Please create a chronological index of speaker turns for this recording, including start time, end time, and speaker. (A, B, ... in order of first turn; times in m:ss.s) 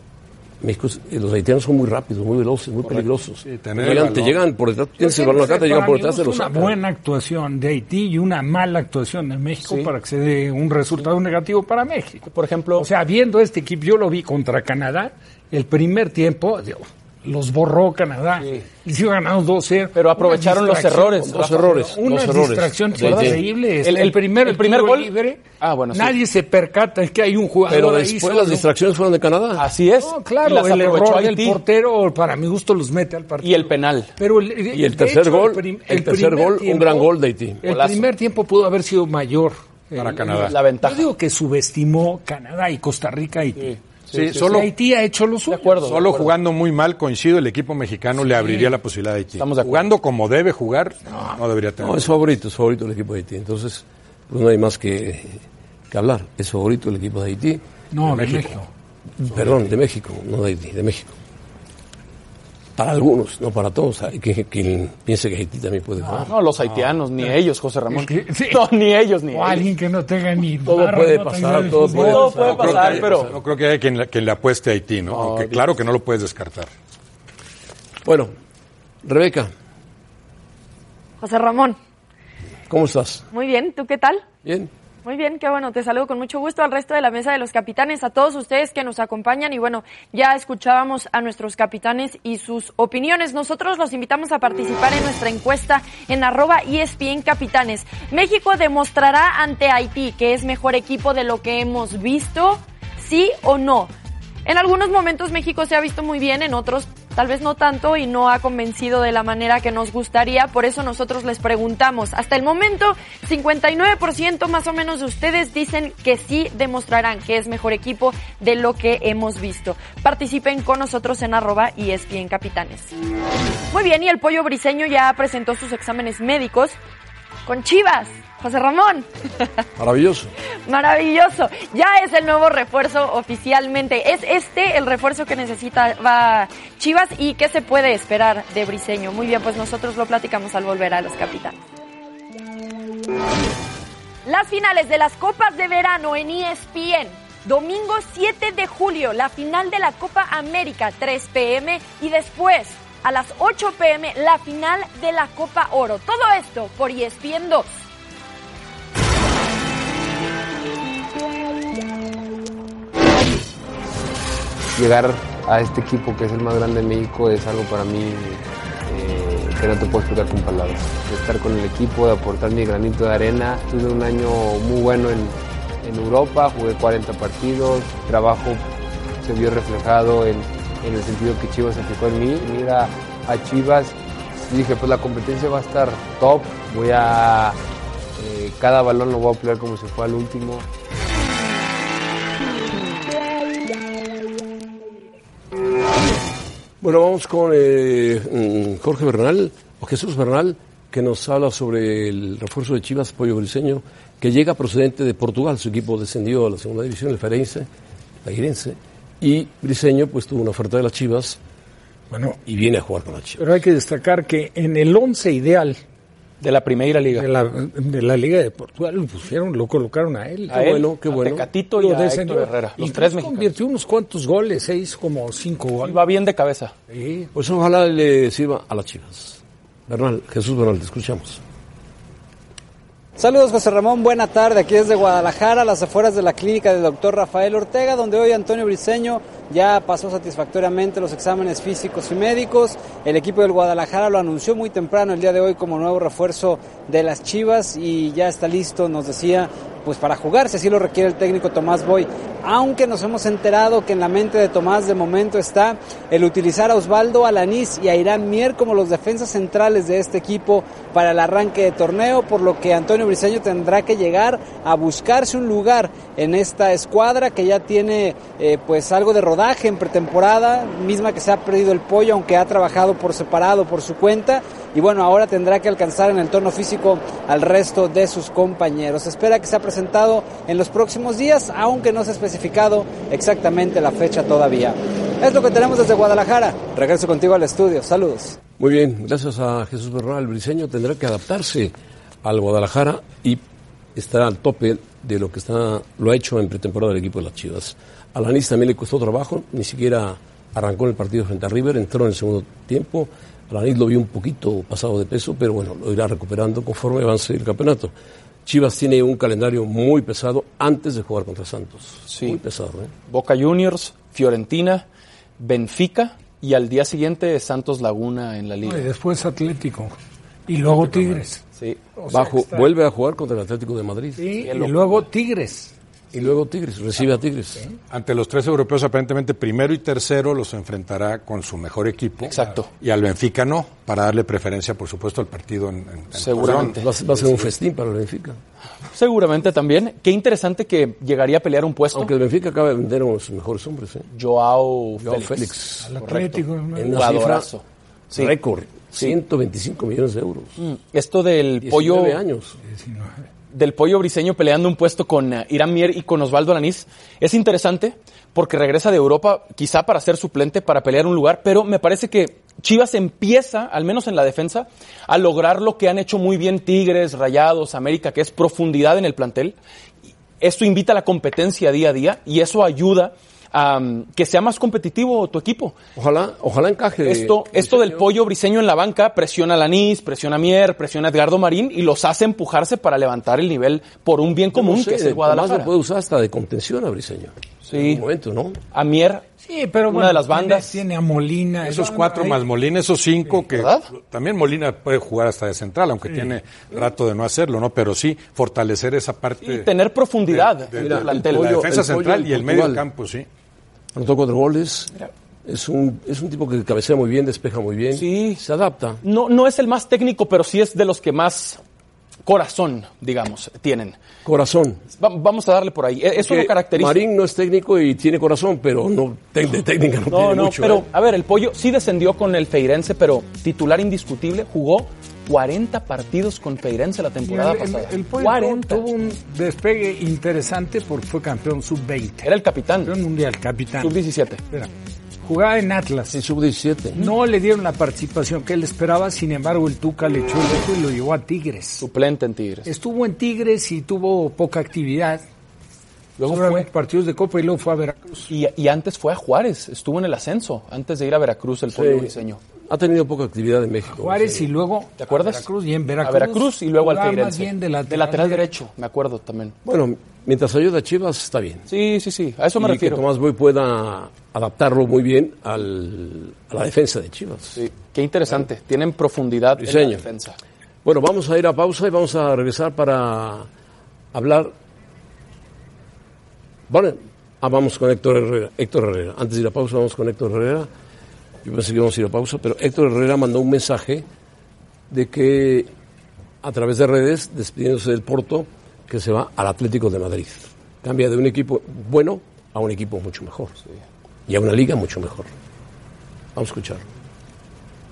0:00.6-0:06.8 A
0:03.4-0:04.4 B
0:05.0-0:12.2 C
0:09.6-0:09.9 D
0:12.3-0:12.9 D
0:12.8-0:28.6 C
0:18.4-0:18.6 D
0:20.0-0:22.0 D
0:21.2-0:23.4 A
0:22.9-0:26.2 D
0:27.7-0:29.7 A
0:29.6-0:31.6 D
0:30.0-0:43.7 C
0:33.4-0:34.1 D
0:34.7-0:37.6 A
0:37.6-0:38.1 D
0:40.0-0:40.6 B
0:40.2-0:41.1 D
0:43.6-0:44.4 D
0:44.1-0:44.7 B
0:44.4-0:45.8 C
0:45.5-0:46.3 D
0:45.8-0:52.2 B
0:48.2-0:48.7 C
0:49.4-0:49.9 D
0:51.1-0:51.4 C
0:51.8-0:57.6 A
0:57.9-0:58.7 C
0:59.2-1:01.2 A
1:02.8-1:06.3 A
1:06.0-1:06.3 C
1:06.3-1:09.7 D
1:07.9-1:08.7 C
1:09.3-1:12.5 C
1:10.6-1:13.3 A
1:11.8-1:13.3 D
1:12.2-1:16.7 B
1:15.1-1:15.6 D
1:18.0-1:18.3 A
1:19.0-1:19.5 A
1:21.2-1:21.8 E
1:22.7-1:23.3 A
1:23.3-1:24.2 E
1:24.4-1:24.7 A
1:25.0-1:43.9 E
1:44.4-2:02.9 E
2:03.7-2:06.8 E
2:07.5-2:09.1 E
2:09.8-2:10.3 A
2:10.7-2:21.6 E
2:24.2-2:37.7 E
2:44.8-2:58.6 F
2:59.2-3:07.6 F
3:08.2-3:10.7 F
3:16.8-3:27.7 A
3:28.2-3:31.4 A
3:32.1-3:32.4 C
3:32.5-3:33.4 A
3:33.4-3:35.8 C
3:36.4-3:37.3 D
3:37.1-3:40.6 C
3:40.5-3:43.5 D
3:40.5-3:41.5 A
3:41.8-3:46.0 C
3:45.8-3:46.7 D
3:46.9-3:47.3 C
3:47.3-3:51.4 A
3:53.2-4:48.4 G
4:48.6-4:53.4 A
4:54.0-5:07.9 A
5:08.4-5:12.9 A
5:12.1-5:12.4 D
5:13.1-5:14.8 D
5:15.4-5:18.9 D
5:18.6-5:19.9 C
5:20.5-5:21.4 C
5:20.7-5:21.2 B
5:22.0-5:22.7 C
5:22.1-5:24.4 A
5:24.2-5:25.7 C
5:24.4-5:25.0 D
5:26.1-5:27.6 A
5:27.9-5:36.8 B
5:32.2-5:32.7 D
5:36.2-5:37.4 D
5:36.4-5:38.4 A
5:38.9-5:42.1 D
5:41.9-5:44.1 A
5:44.1-5:48.3 D
5:45.0-5:45.9 A
5:45.8-5:47.1 C
5:46.8-5:47.5 A
5:48.1-5:50.6 A
5:50.6-5:52.2 D
5:51.6-5:52.6 A
5:52.7-5:53.2 C
5:53.5-6:09.6 D
6:10.4-6:15.8 D
6:16.0-6:18.1 A
6:17.0-6:25.7 D
6:24.5-6:28.6 A
6:27.6-6:28.0 D
6:28.7-6:29.2 D
6:29.4-6:32.4 C
6:29.9-6:30.8 D
6:31.6-6:39.7 B
6:33.5-6:33.9 D
6:39.4-6:41.6 D
6:40.3-6:43.3 B
6:40.8-6:42.8 A
6:43.9-6:44.9 A
6:45.4-6:49.0 A
6:47.9-6:48.4 D
6:49.0-6:51.6 D
6:52.2-6:54.0 D
6:54.2-6:54.8 A
6:55.0-6:57.0 D
6:56.2-7:00.9 A
7:00.1-7:08.8 D
7:07.2-7:12.3 C
7:12.2-7:12.9 D
7:12.8-7:14.0 C
7:13.8-7:14.4 D
7:15.2-7:16.2 C
7:16.1-7:17.0 A
7:17.0-7:21.8 C
7:21.8-7:22.7 D
7:22.7-7:25.2 C
7:26.2-7:26.7 D
7:26.3-7:28.3 C
7:28.3-7:32.4 D
7:31.7-7:32.2 A
7:32.7-7:34.5 A
7:33.9-7:38.5 C
7:35.0-7:35.5 D
7:36.0-7:39.6 D
7:39.6-7:41.7 A
7:41.7-7:43.0 D
7:42.6-7:47.6 A
7:47.6-7:50.4 D
7:49.6-7:50.1 A
7:50.8-7:53.5 A
7:54.1-7:54.5 A
7:56.7-8:00.7 A
8:01.4-8:04.1 A
8:04.9-8:05.7 A
8:06.4-8:13.6 A
8:14.3-8:15.3 A
8:16.4-8:16.9 A